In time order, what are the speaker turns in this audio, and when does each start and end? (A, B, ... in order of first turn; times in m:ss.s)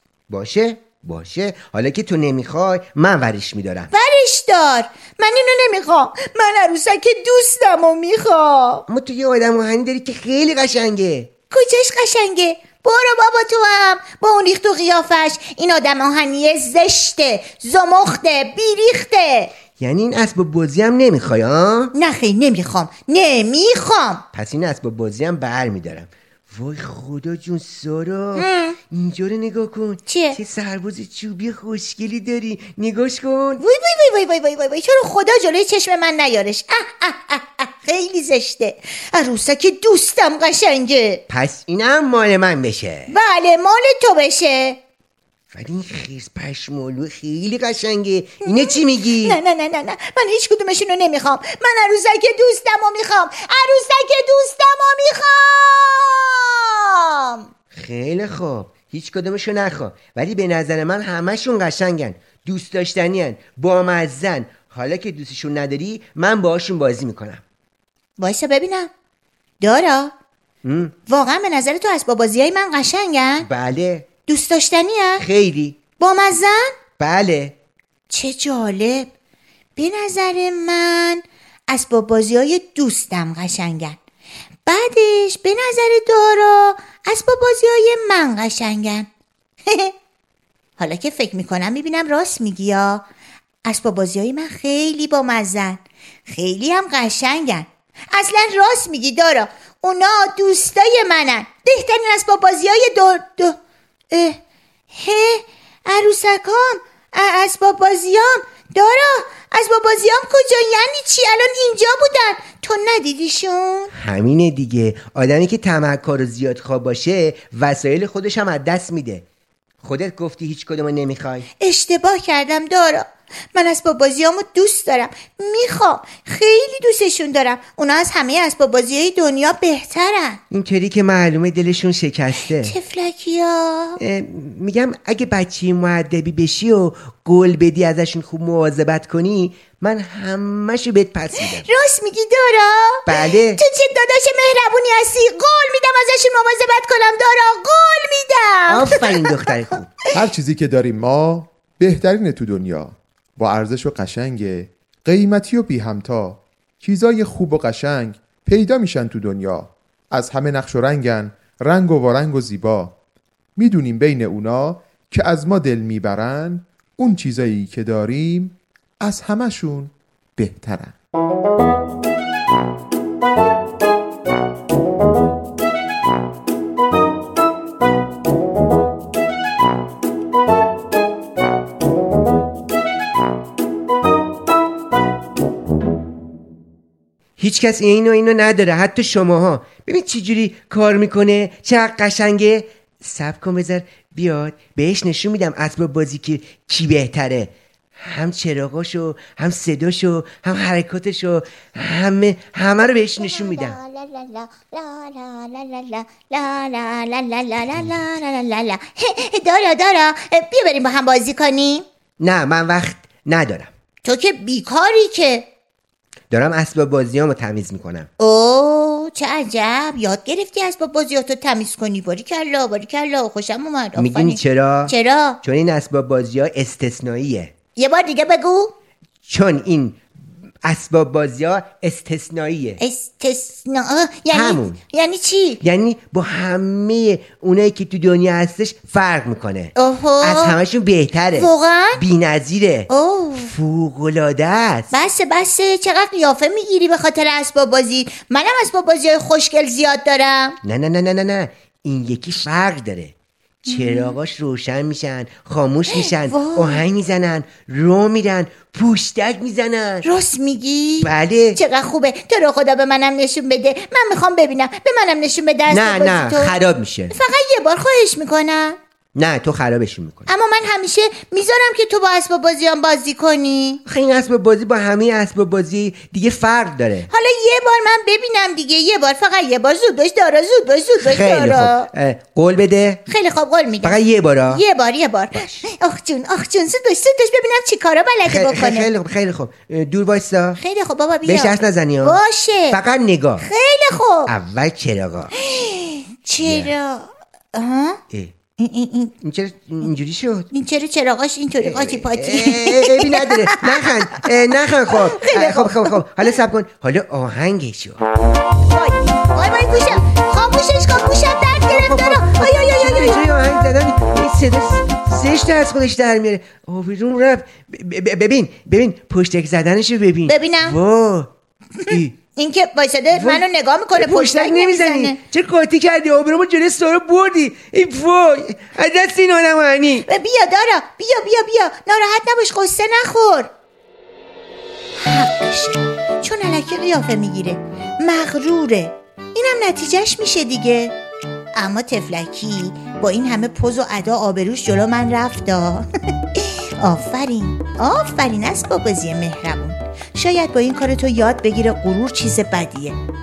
0:00.3-0:03.9 A
0:03.9-0:08.8 B
0:08.9-0:11.3 A
0:11.5-0:19.5 B
0:19.8-0:21.9 A
0:21.9-0:24.2 B
0:24.3-0:33.6 A
0:28.4-0:28.8 B
0:30.1-0:30.4 B
0:33.6-0:41.2 B
0:41.3-0:43.1 A
0:43.1-0:44.8 B
0:45.5-0:49.4 A
0:48.4-0:57.5 B
0:57.7-1:07.4 A
1:08.2-1:08.9 B
1:09.6-1:10.1 B
1:10.6-1:10.9 A
1:11.1-1:13.5 B
1:13.4-1:14.1 A
1:14.3-1:15.2 B
1:15.2-1:15.8 A
1:16.0-1:16.7 B
1:17.0-1:17.6 A
1:18.1-1:19.1 B
1:19.8-1:24.0 B
1:24.6-1:29.1 B
1:29.7-1:29.9 B
1:30.8-1:33.0 B
1:33.6-1:43.6 B
1:44.1-1:44.4 B
1:44.9-1:53.9 B
1:53.9-1:59.2 A
1:59.8-2:01.4 A
2:01.6-2:10.4 B
2:10.5-2:12.7 A
2:12.6-2:14.0 B
2:14.0-2:21.6 A
2:21.4-2:29.3 B
2:23.1-2:23.6 A
2:28.7-2:29.9 A
2:30.1-2:42.9 C
2:43.6-2:50.9 C
3:07.4-3:23.8 A
3:23.2-3:31.8 B
3:32.2-3:33.7 A
3:34.0-3:35.5 B
3:36.3-3:38.1 A
3:38.2-3:45.4 B
3:44.0-3:47.5 A
3:47.8-3:48.7 B
3:49.3-3:50.0 A
3:50.6-3:52.8 A
3:52.8-3:55.6 B
3:54.3-3:54.8 A
3:55.6-4:04.9 A
3:59.7-4:00.6 B
4:01.3-4:02.0 B
4:02.9-4:03.5 B
4:04.9-4:10.6 B
4:10.6-4:13.1 A
4:13.6-4:14.2 B
4:13.6-4:20.0 A
4:15.9-4:16.8 B
4:20.0-4:26.5 B
4:21.0-4:21.6 A
4:25.7-4:27.1 A
4:27.1-4:28.8 B
4:29.1-4:30.3 A
4:30.3-4:33.8 B
4:33.8-4:37.1 A
4:37.1-4:41.9 B
4:41.0-4:43.0 A
4:43.1-4:48.9 B
4:43.8-4:44.6 A
4:45.3-4:45.6 A
4:48.2-4:50.6 A
4:50.6-4:52.8 B
4:51.2-4:52.2 A
4:52.7-4:53.4 A
4:53.4-4:54.3 B
4:54.3-4:55.3 A
4:55.3-4:58.0 B
4:56.4-4:56.7 A
4:58.6-4:59.1 B
4:59.2-5:00.5 A
5:00.5-5:03.6 B
5:01.6-5:08.0 A
5:05.2-5:06.0 B
5:08.7-5:13.2 B
5:11.7-5:21.3 A
5:20.2-5:20.8 B
5:21.8-5:25.2 B
5:21.9-5:22.2 A
5:23.1-5:30.0 A
5:30.0-5:33.5 B
5:35.0-5:40.9 B
5:41.5-5:53.0 B